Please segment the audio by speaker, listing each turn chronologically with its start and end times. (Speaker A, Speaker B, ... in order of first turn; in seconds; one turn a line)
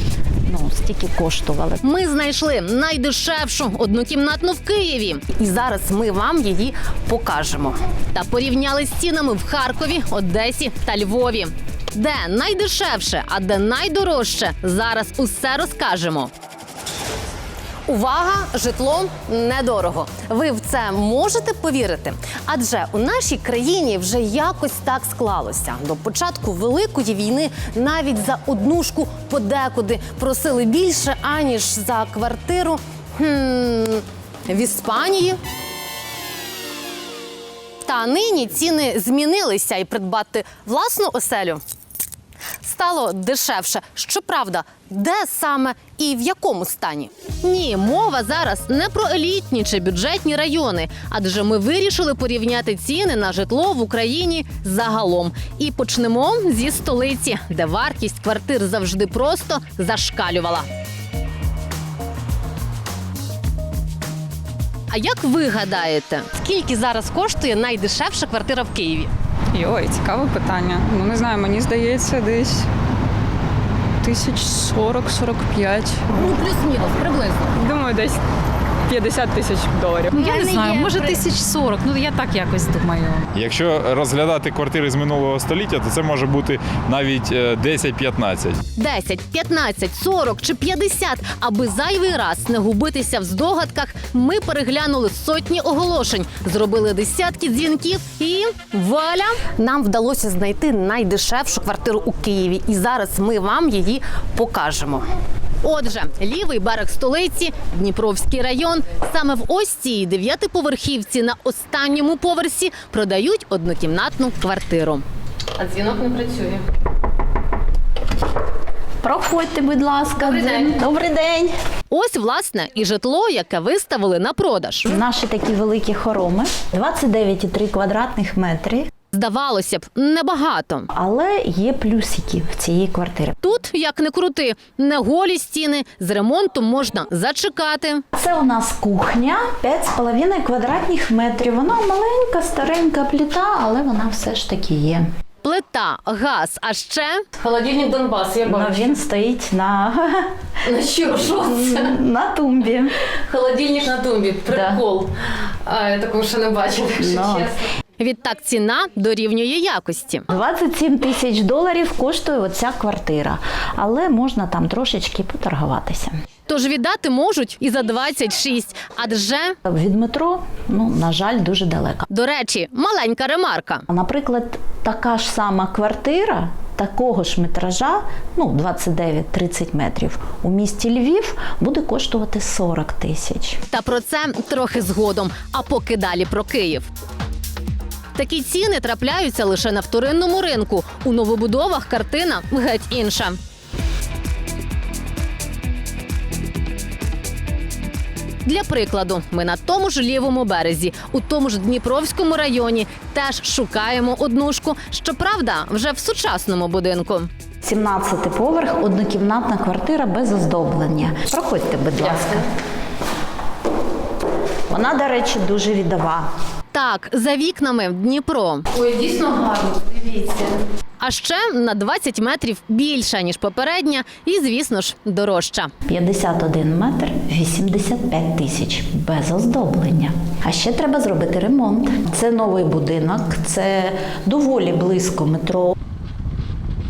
Speaker A: 0.5-1.8
Speaker B: 1.8-16.3
Speaker B: 17.9-35.4
Speaker B: 37.8-41.6
Speaker B: 42.6-60.6
Speaker B: 64.9-69.1
Speaker C: 69.5-72.7
Speaker C: 74.0-76.0
Speaker B: 76.1-77.6
Speaker C: 77.6-78.2
Speaker C: 78.9-80.3
Speaker B: 80.1-81.2
Speaker D: 80.2-83.2
Speaker C: 82.2-83.0
Speaker E: 83.3-88.6
Speaker B: 88.8-105.1
Speaker B: 105.6-115.0
Speaker B: 115.6-116.6
Speaker A: 119.0-121.5
Speaker B: 120.2-120.8
Speaker B: 121.9-124.9
Speaker A: 124.9-128.9
Speaker B: 129.1-130.9
Speaker A: 130.9-133.4
Speaker B: 133.4-138.0
Speaker A: 138.1-145.1
Speaker B: 145.4-148.9
Speaker A: 148.5-150.3
Speaker B: 150.7-151.9
Speaker A: 151.4-152.9
Speaker B: 153.3-155.1
Speaker A: 154.5-154.8
Speaker B: 155.7-157.5
Speaker A: 157.0-157.6
Speaker B: 158.0-160.2
Speaker A: 160.3-166.1
Speaker B: 166.5-169.6
Speaker A: 169.7-172.1
Speaker B: 172.1-173.8
Speaker A: 173.9-183.6
Speaker B: 183.7-186.9
Speaker B: 188.2-193.4
Speaker B: 198.4-207.3
Speaker A: 207.6-212.5
Speaker A: 214.7-216.3
Speaker B: 216.7-220.5
Speaker B: 221.0-225.7
Speaker A: 225.9-235.7